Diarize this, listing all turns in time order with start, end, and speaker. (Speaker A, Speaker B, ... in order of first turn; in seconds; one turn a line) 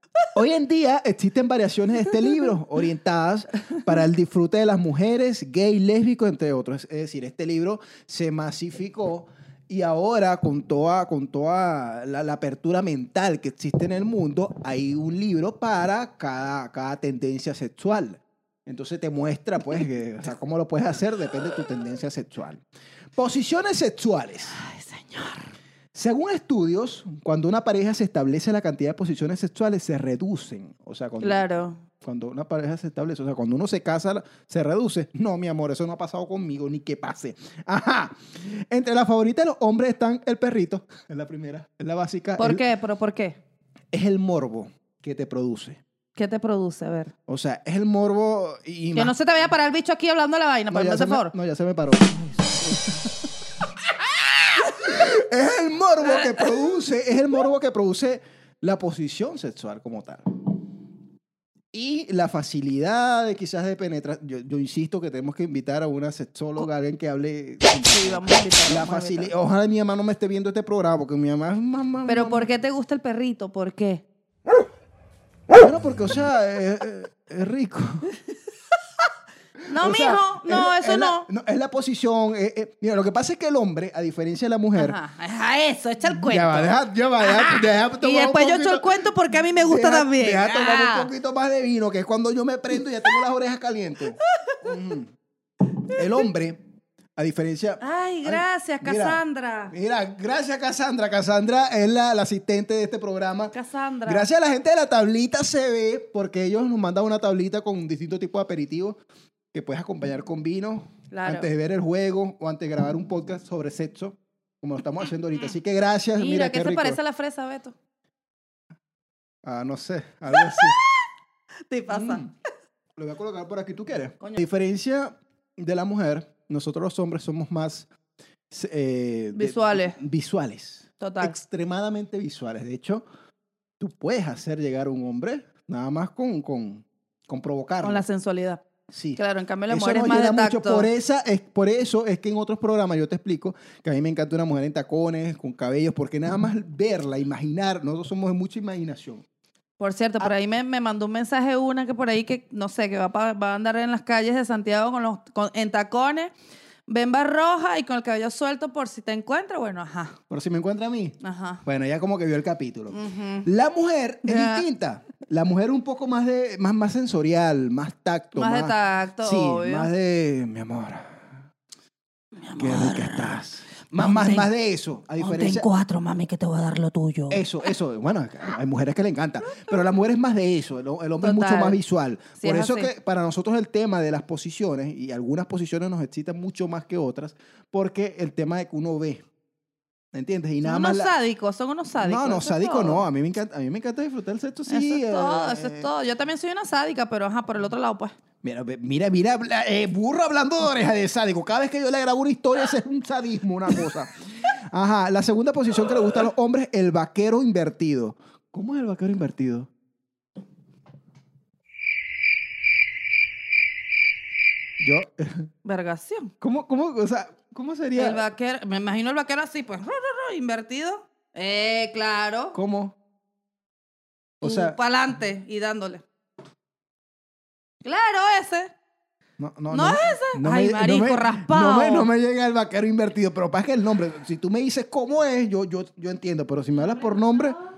Speaker A: 0.3-22.6
Speaker A: 23.2-24.6
Speaker B: 24.5-25.5
Speaker A: 25.9-42.6
Speaker B: 31.2-31.8
Speaker B: 42.4-43.4
Speaker A: 43.9-45.8
Speaker B: 46.2-47.1
Speaker A: 47.3-49.2
Speaker B: 49.0-51.3
Speaker A: 50.7-53.1
Speaker A: 54.0-60.4
Speaker A: 61.7-72.5
Speaker B: 67.9-69.3
Speaker B: 72.1-74.0
Speaker A: 75.6-78.1
Speaker B: 79.7-81.3
Speaker A: 79.8-85.0
Speaker B: 84.8-91.1
Speaker A: 86.1-95.1
Speaker B: 94.2-94.6
Speaker A: 95.9-96.6
Speaker A: 97.2-103.5
Speaker B: 97.8-99.7
Speaker B: 103.5-104.3
Speaker A: 104.1-109.0
Speaker A: 109.5-117.0
Speaker B: 111.1-111.5
Speaker B: 116.2-117.8
Speaker A: 119.4-120.8
Speaker B: 120.3-120.7
Speaker B: 121.7-122.2
Speaker A: 121.9-122.3
Speaker A: 123.0-127.9
Speaker A: 128.5-133.0
Speaker B: 129.3-130.0
Speaker B: 131.0-131.4
Speaker A: 133.8-138.0
Speaker B: 137.8-138.6
Speaker A: 138.9-149.2
Speaker B: 139.2-140.9
Speaker B: 149.8-156.3
Speaker B: 156.9-160.2
Speaker A: 160.3-171.4
Speaker B: 161.2-161.6
Speaker B: 162.9-163.5
Speaker B: 164.2-164.7
Speaker B: 168.3-169.9
Speaker B: 172.4-174.5
Speaker A: 172.6-175.7
Speaker B: 175.2-177.5
Speaker A: 177.3-189.2
Speaker B: 181.2-181.8
Speaker B: 182.4-182.9
Speaker A: 190.1-191.2
Speaker B: 190.6-193.1
Speaker A: 192.0-195.9
Speaker B: 194.7-198.2
Speaker A: 198.4-204.1
Speaker A: 204.7-209.7
Speaker A: 214.8-215.5
Speaker B: 215.7-216.3
Speaker A: 216.4-218.2
Speaker B: 218.0-222.6
Speaker A: 222.5-222.9
Speaker A: 224.4-224.8
Speaker B: 224.4-226.1
Speaker B: 227.8-228.7
Speaker A: 229.4-237.6
Speaker B: 229.7-232.1
Speaker B: 237.0-237.6